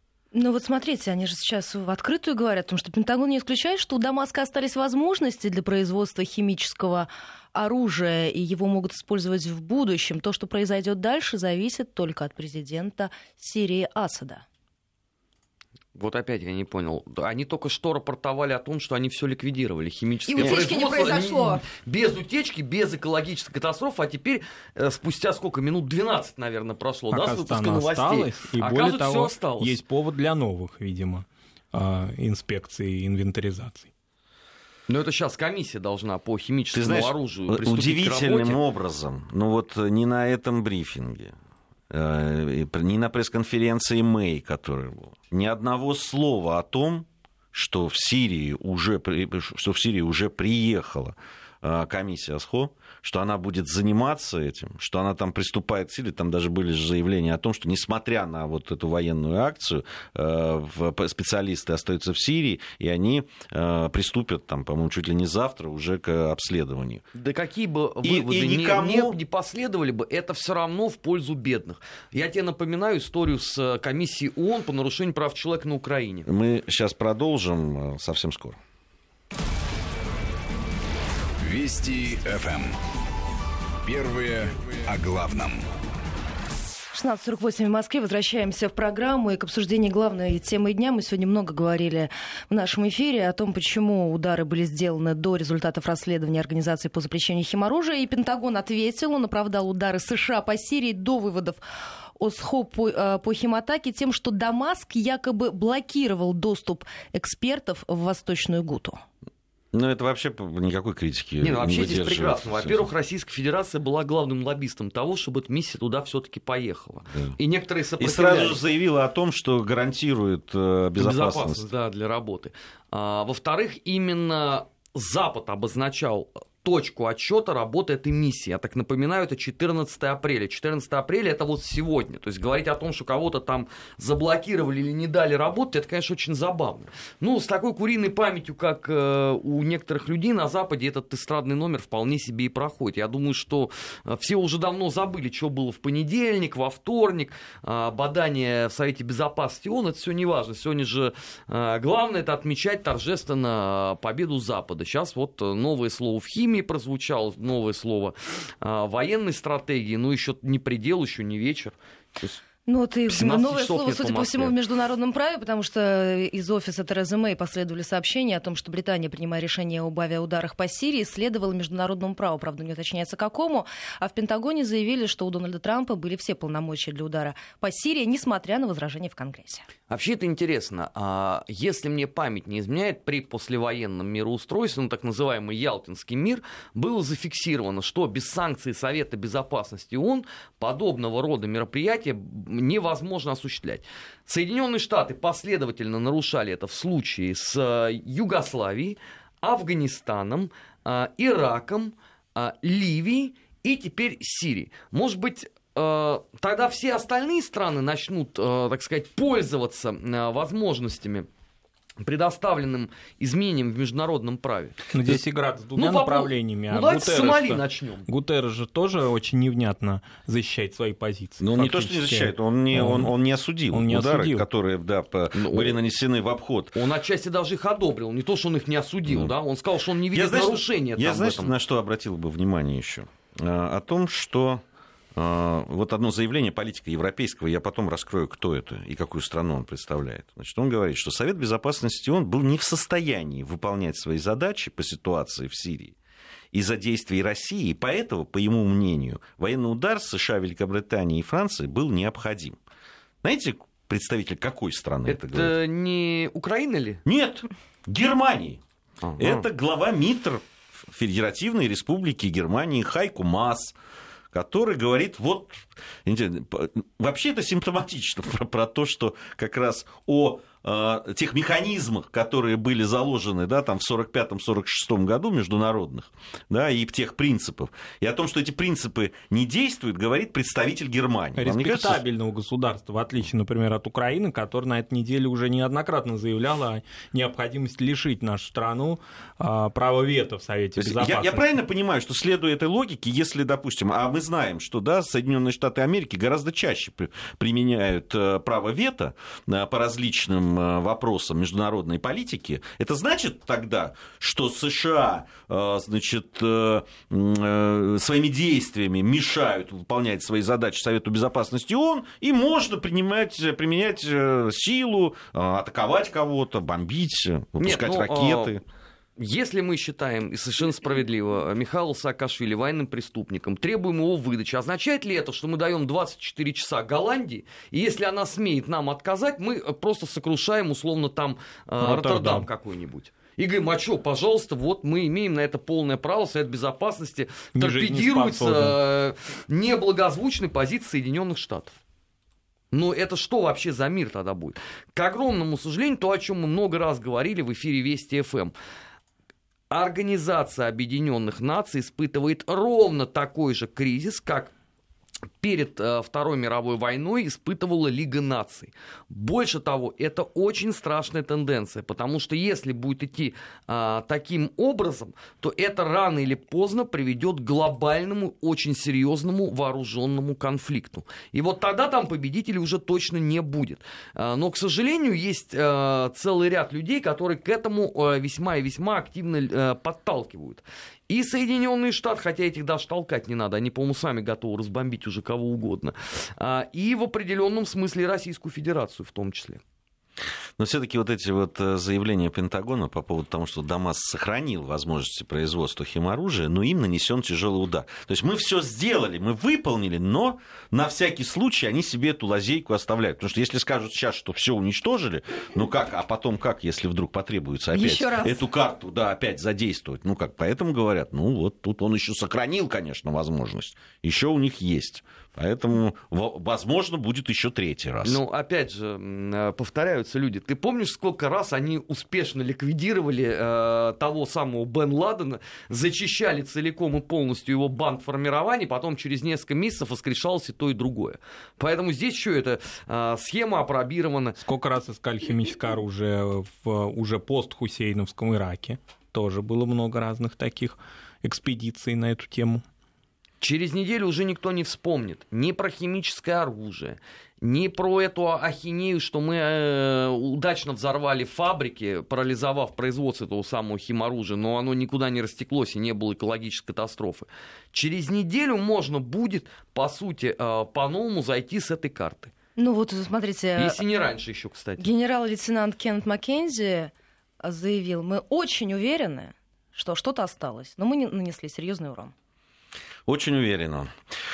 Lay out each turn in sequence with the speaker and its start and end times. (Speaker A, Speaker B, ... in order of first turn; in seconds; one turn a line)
Speaker A: 0.3-14.4
Speaker B: 15.9-29.8
Speaker A: 20.3-21.6
Speaker C: 27.1-33.9
Speaker B: 34.9-38.6
Speaker D: 36.7-41.3
Speaker D: 41.9-67.0
Speaker B: 67.1-76.3
Speaker D: 68.0-69.2
Speaker D: 76.2-78.6
Speaker E: 81.4-82.7
Speaker E: 83.8-85.6
Speaker A: 86.9-101.6
Speaker A: 102.2-109.0
Speaker D: 109.7-112.9
Speaker B: 111.4-118.6
Speaker D: 118.0-121.7
Speaker B: 121.0-162.4
Speaker A: 162.7-179.7
Speaker B: 163.1-164.5
Speaker B: 179.9-211.3
Speaker B: 212.0-214.9
Speaker C: 214.9-223.1
Speaker B: 215.8-218.1
Speaker D: 221.4-226.7
Speaker C: 223.7-224.4
Speaker B: 225.3-225.8
Speaker B: 226.7-231.5
Speaker D: 230.1-234.6
Speaker D: 235.2-245.9
Speaker D: 246.5-252.6
Speaker D: 253.2-255.5
Speaker B: 255.1-257.0
Speaker D: 257.0-258.6
Speaker B: 259.0-259.4
Speaker D: 259.2-263.7
Speaker D: 264.3-282.0
Speaker C: 281.4-291.4
Speaker D: 290.8-318.6
Speaker B: 317.6-318.6
Speaker B: 319.2-341.8
Speaker C: 331.8-332.5
Speaker C: 337.6-338.8
Speaker B: 342.7-348.5
Speaker B: 349.7-354.5
Speaker B: 355.4-389.6
Speaker D: 390.6-418.2
Speaker A: 407.7-408.4
Speaker B: 418.0-434.4
Speaker C: 434.4-442.6
Speaker B: 443.4-462.3
Speaker A: 462.6-463.8
Speaker B: 463.6-464.8
Speaker A: 464.8-466.9
Speaker A: 467.4-472.1
Speaker D: 473.1-473.9